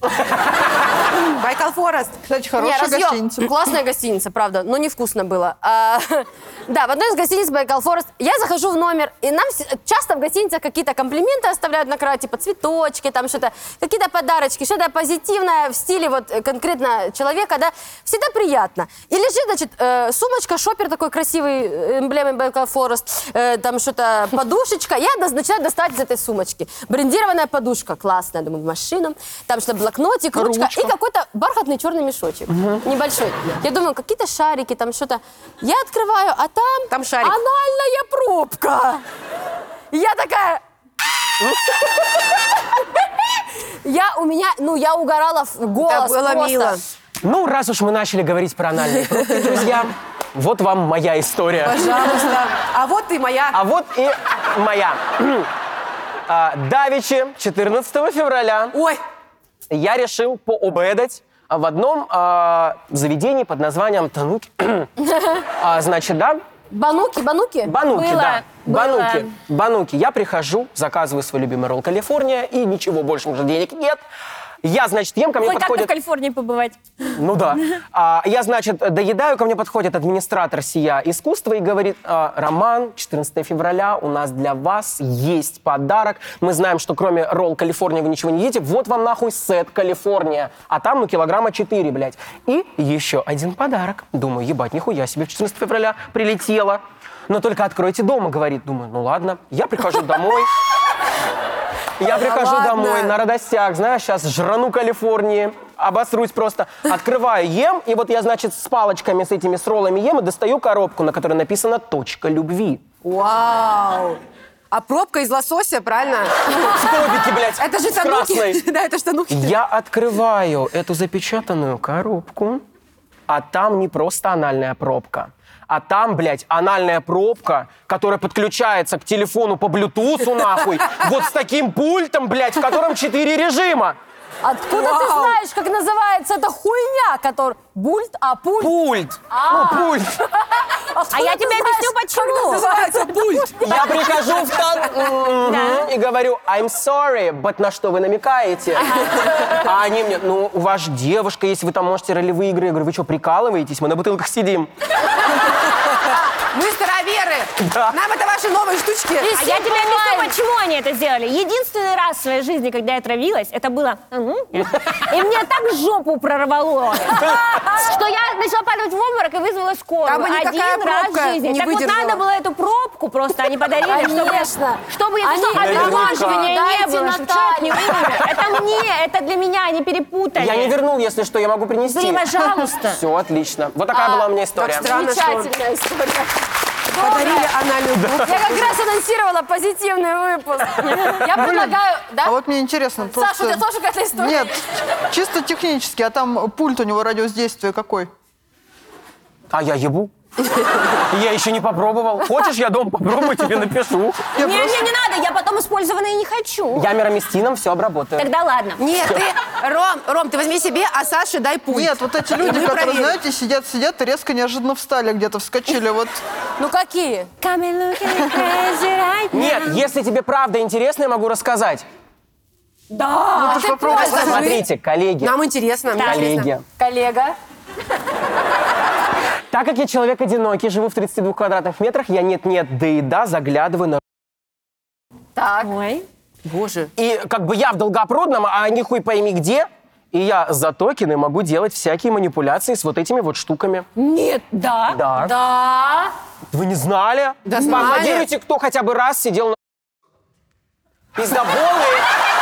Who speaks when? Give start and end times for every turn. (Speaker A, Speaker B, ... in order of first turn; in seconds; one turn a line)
Speaker A: 1.1-2.2
Speaker B: 2.2-3.5
Speaker C: 2.6-39.0
Speaker B: 30.3-30.9
Speaker A: 36.9-37.4
Speaker C: 39.9-40.6
Speaker D: 41.4-41.7
Speaker C: 43.8-46.8
Speaker A: 45.8-46.8
Speaker D: 47.2-52.0
Speaker A: 51.6-53.6
Speaker D: 53.5-55.5
Speaker D: 56.3-58.8
Speaker A: 58.7-59.0
Speaker D: 59.7-64.9
Speaker D: 65.6-66.4
Speaker C: 66.7-67.7
Speaker D: 67.6-74.0
Speaker E: 67.9-69.3
Speaker D: 74.6-75.9
Speaker E: 75.4-76.8
Speaker D: 77.1-100.5
Speaker D: 102.0-112.8
Speaker A: 102.0-103.1
Speaker A: 113.0-114.2
Speaker A: 114.7-119.5
Speaker D: 116.6-118.6
Speaker D: 119.3-122.6
Speaker D: 123.3-133.9
Speaker C: 134.4-138.8
Speaker A: 134.7-135.4
Speaker D: 138.6-140.2
Speaker C: 139.3-144.2
Speaker E: 141.1-142.7
Speaker A: 142.4-143.7
Speaker D: 143.6-148.9
Speaker E: 145.4-145.9
Speaker D: 149.4-154.7
Speaker A: 156.5-159.3
Speaker D: 157.6-157.9
Speaker C: 159.2-160.3
Speaker E: 159.3-180.7
Speaker C: 167.1-167.9
Speaker D: 167.2-167.4
Speaker A: 170.1-172.2
Speaker C: 173.8-178.2
Speaker D: 175.5-176.5
Speaker D: 180.4-182.2
Speaker E: 181.9-183.0
Speaker D: 182.8-184.9
Speaker C: 183.9-184.2
Speaker A: 184.5-185.5
Speaker C: 184.8-186.3
Speaker C: 186.9-187.5
Speaker A: 186.9-188.8
Speaker D: 188.0-188.3
Speaker C: 188.2-192.3
Speaker B: 191.3-193.6
Speaker C: 193.0-194.6
Speaker B: 194.1-198.1
Speaker D: 199.5-200.1
Speaker D: 201.1-204.3
Speaker B: 204.3-204.9
Speaker E: 204.4-206.8
Speaker D: 206.7-208.3
Speaker E: 208.2-208.8
Speaker A: 208.8-213.2
Speaker B: 211.7-216.2
Speaker C: 216.6-217.3
Speaker E: 217.4-219.8
Speaker D: 219.3-221.8
Speaker E: 222.9-223.8
Speaker B: 223.3-224.5
Speaker C: 223.4-224.6
Speaker A: 223.8-224.7
Speaker D: 224.1-225.3
Speaker A: 225.2-226.5
Speaker E: 226.0-226.3
Speaker D: 226.0-226.6
Speaker C: 226.8-227.3
Speaker D: 229.5-234.0
Speaker C: 235.3-235.7
Speaker E: 235.6-236.0
Speaker A: 236.4-236.9
Speaker D: 237.0-243.9
Speaker E: 244.0-245.0
Speaker D: 244.9-245.3
Speaker C: 245.2-246.1
Speaker D: 246.5-249.6
Speaker A: 247.4-248.3
Speaker D: 251.1-252.1